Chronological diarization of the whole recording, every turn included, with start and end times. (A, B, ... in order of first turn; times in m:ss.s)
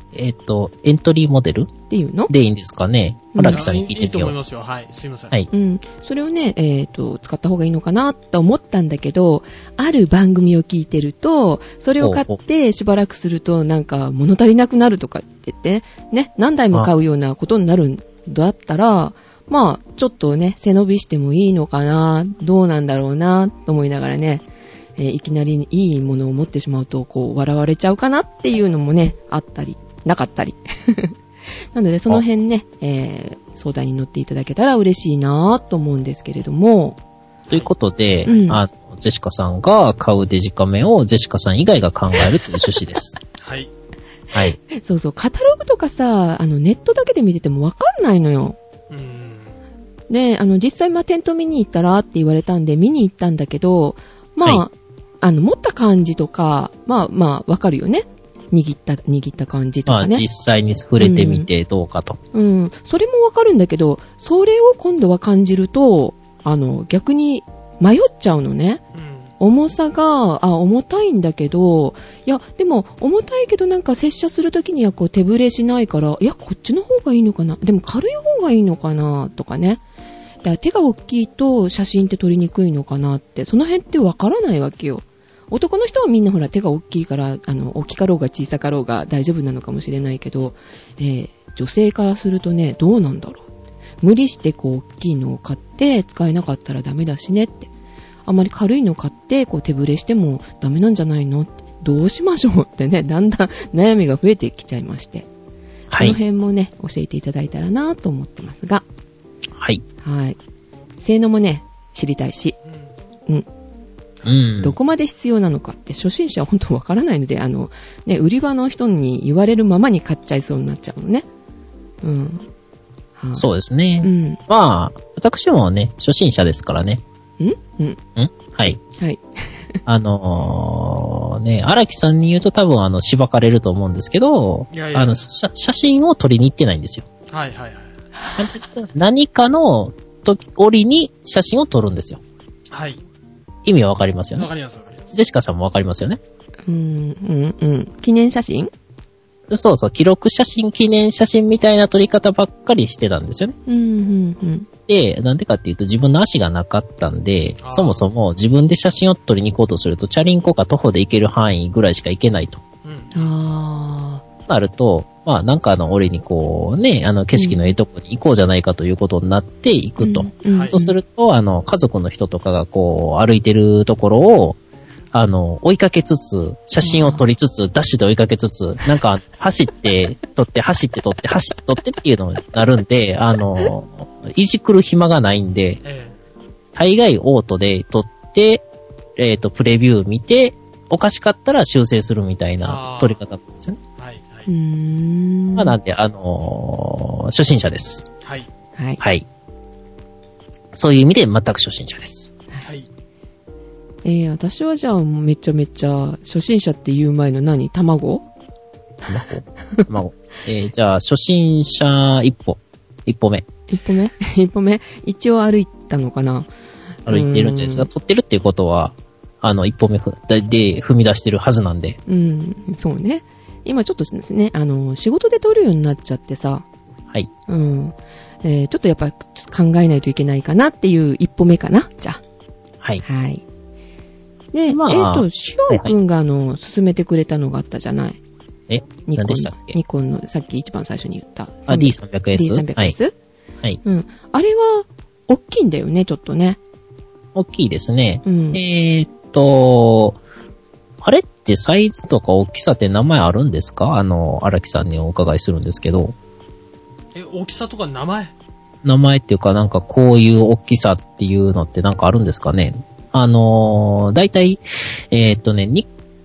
0:00.1-0:01.7 A
0:01.9-0:02.3 B
0:02.3-0:04.4 A
0:03.3-0:03.7 B
0:03.5-0:05.3 C
0:05.5-0:24.4 B
0:12.0-0:12.4 A
0:25.0-0:31.2 B
0:31.7-0:37.0 B
0:37.5-0:43.2 A
0:38.3-0:38.6 B
0:43.4-0:43.7 C
0:44.3-0:44.6 A
0:44.7-0:48.6 B
0:48.9-0:49.6 C
0:50.1-1:00.2 B
0:59.9-1:02.2 A
1:01.0-1:01.5 B
1:02.3-1:08.8 B
1:08.9-1:09.3 C
1:09.4-1:19.8 B
1:20.4-1:33.5 B
1:34.0-1:37.7 B
1:38.3-1:45.3 B
1:45.9-1:46.2 A
1:46.0-1:48.8 B
1:49.6-1:49.8 A
1:50.0-1:50.4 B
1:51.0-1:52.6 B
1:52.7-1:52.9 C
1:54.2-1:54.8 A
1:54.6-2:01.3 B
2:02.0-2:02.5 B
2:03.2-2:03.4 B
2:03.3-2:07.0 A
2:04.0-2:04.4 B
2:07.4-2:08.0 B
2:08.2-2:08.8 A
2:08.9-2:09.2 B
2:09.9-2:17.0 A
2:14.7-2:15.2 C
2:17.3-2:17.9 C
2:18.2-2:18.6 B
2:18.4-2:22.2 A
2:22.7-2:23.0 C
2:23.6-2:24.5 A
2:24.4-2:25.1 C
2:25.1-2:26.2 A
2:26.7-2:28.7 B
2:29.5-2:33.6 A
2:33.7-2:34.7 B
2:34.9-2:42.6 A
2:37.6-2:38.0 C
2:42.8-2:43.3 C
2:43.1-2:44.2 B
2:44.5-2:54.6 A
2:47.3-2:47.8 B
2:50.0-2:51.0 B
2:55.1-3:05.8 A
2:56.8-2:57.2 B
3:05.8-3:06.2 C
3:06.8-3:08.6 A
3:09.2-3:13.8 A
3:12.6-3:13.2 C
3:14.0-3:14.5 C
3:14.5-3:15.8 B
3:15.6-3:18.1 A
3:18.2-3:18.5 C
3:19.0-3:19.2 A
3:20.7-3:22.3 A
3:24.0-3:28.2 B
3:29.1-3:33.5 A
3:33.7-3:36.5 B
3:37.1-3:37.9 B
3:37.1-3:42.0 A
3:42.1-3:46.6 B
3:47.5-3:52.2 B
3:53.0-3:53.4 B
3:54.5-3:58.2 B
3:54.7-3:55.9 A
3:58.7-3:59.8 A
3:59.1-4:03.1 B
4:01.7-4:02.9 A
4:03.8-4:06.6 B
4:07.4-4:10.2 A
4:08.2-4:08.6 B
4:11.0-4:16.2 A
4:17.1-4:18.3 C
4:18.8-4:25.9 A